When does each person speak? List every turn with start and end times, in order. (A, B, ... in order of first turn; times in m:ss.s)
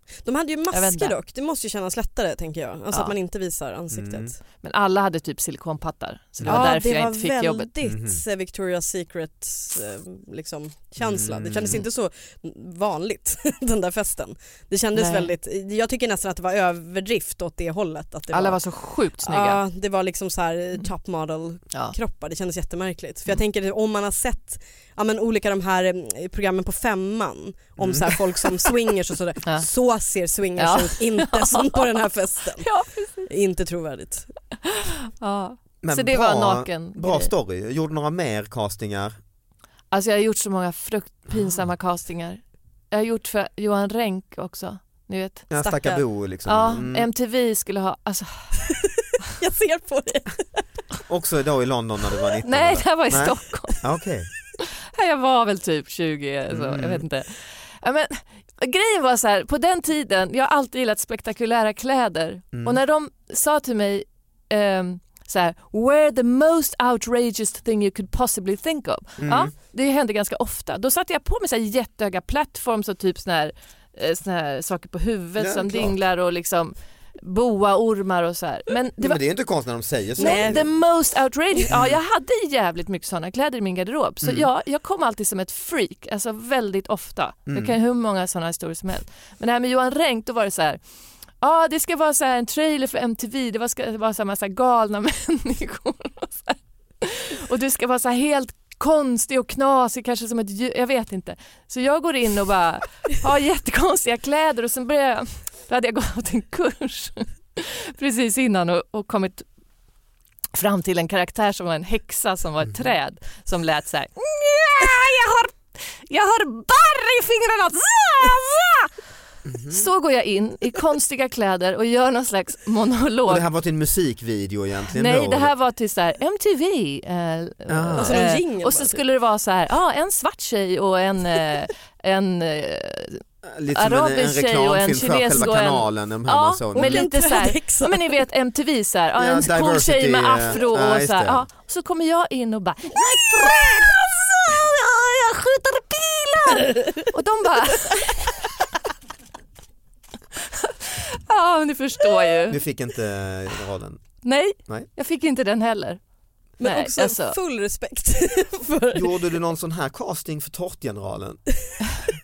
0:00.2-0:04.4 A
0:00.7-0:01.1 B
0:02.9-0:03.2 B
0:03.9-0:04.3 C
0:04.6-0:07.7 B
0:06.4-0:06.7 C
0:06.4-0:18.6 A
0:07.8-0:08.2 C
0:11.0-0:11.8 C
0:14.9-0:15.3 B
0:18.3-0:19.6 B
0:19.2-0:32.7 A
0:27.8-0:28.2 C
0:30.6-0:32.0 B
0:32.6-0:33.2 B
0:33.2-0:34.3 A
0:34.6-0:37.3 B
0:35.8-0:39.2 C
0:39.9-0:45.4 B
0:45.5-0:47.1 C
0:45.6-0:46.0 A
0:46.4-0:48.7 B
0:49.4-0:50.4 A
0:51.1-0:54.3 C
0:52.4-0:53.8 B
0:54.6-1:19.2 B
0:56.5-0:57.0 C
1:02.5-1:02.8 C
1:09.2-1:09.5 C
1:15.4-1:15.9 C
1:19.0-1:20.6 C
1:20.2-1:30.8 B
1:20.2-1:20.6 A
1:21.7-1:22.0 C
1:24.2-1:24.5 C
1:27.5-1:27.8 C
1:31.4-1:49.4 B
1:50.5-1:58.9 B
1:59.4-1:59.8 C
1:59.7-2:03.5 B
2:03.3-2:05.5 C
2:04.9-2:13.2 B
2:07.7-2:08.2 C
2:08.0-2:09.0 A
2:13.4-2:17.1 C
2:13.7-2:28.4 B
2:16.7-2:18.0 A
2:19.2-2:21.4 C
2:30.5-2:32.6 B
2:32.5-2:34.1 C
2:34.2-2:36.0 B
2:36.6-2:37.4 B
2:36.6-2:39.2 A
2:38.9-2:41.4 C